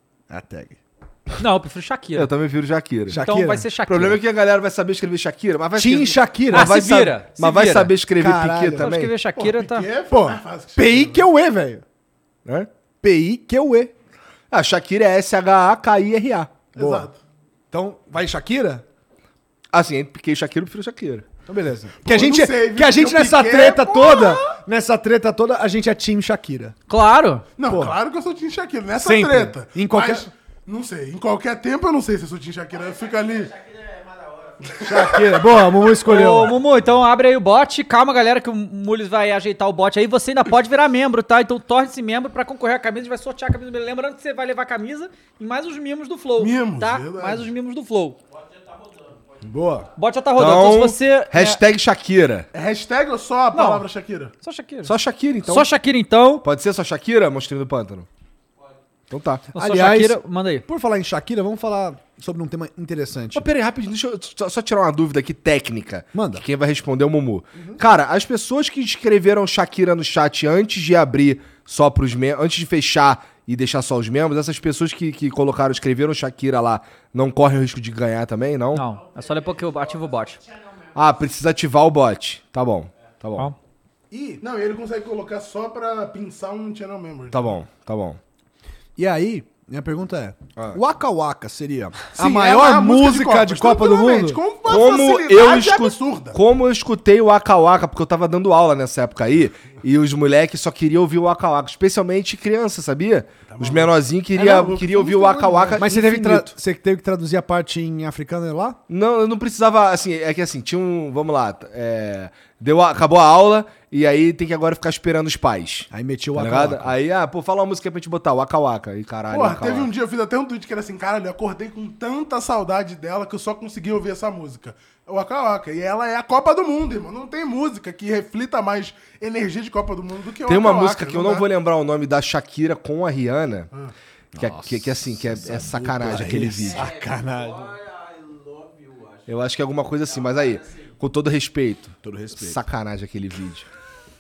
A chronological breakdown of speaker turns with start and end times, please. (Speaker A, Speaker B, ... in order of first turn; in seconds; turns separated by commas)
Speaker A: 0.3-0.8, Speaker B: 1.4-2.3, Speaker C: 2.2-3.2, Speaker A: 3.1-3.7, Speaker B: 3.1-4.2, Speaker C: 3.9-9.2, Speaker A: 5.8-6.8, Speaker B: 6.5-7.9, Speaker A: 8.2-8.9, Speaker B: 8.8-9.9, Speaker D: 9.4-11.2, Speaker A: 10.1-11.8, Speaker A: 13.0-13.9, Speaker C: 14.5-16.6, Speaker D: 16.7-17.2, Speaker A: 16.8-17.1, Speaker A: 17.7-18.9, Speaker C: 19.7-21.2, Speaker A: 21.5-26.8, Speaker D: 22.0-24.5, Speaker B: 26.9-27.4, Speaker D: 27.6-33.6, Speaker A: 27.6-27.9, Speaker A: 28.9-30.3, Speaker D: 34.6-35.2, Speaker A: 34.8-36.6, Speaker B: 36.0-48.2, Speaker D: 46.4-47.5, Speaker A: 49.4-49.9, Speaker B: 50.0-51.6, Speaker C: 50.4-52.5, Speaker D: 52.5-54.3, Speaker B: 53.5-53.9, Speaker B: 54.4-54.9, Speaker C: 54.9-55.7, Speaker B: 55.5-56.5, Speaker C: 56.4-58.1, Speaker C: 59.1-59.5, Speaker B: 59.5-60.6, Speaker A: 59.5-63.5, Speaker C: 63.3-78.8, Speaker A: 66.1-66.4, Speaker B: 78.7-80.4, Speaker C: 80.9-83.5, Speaker D: 84.1-87.6, Speaker C: 87.3-88.2, Speaker A: 89.0-94.4, Speaker D: 92.2-96.4, Speaker C: 94.7-106.5, Speaker D: 103.5-105.9, Speaker A: 105.8-108.8, Speaker C: 108.9-119.9, Speaker A: 115.9-117.0, Speaker D: 119.3-131.4, Speaker C: 130.4-133.7, Speaker A: 134.3-137.8, Speaker C: 134.4-136.9, Speaker C: 139.3-143.7, Speaker A: 142.0-142.6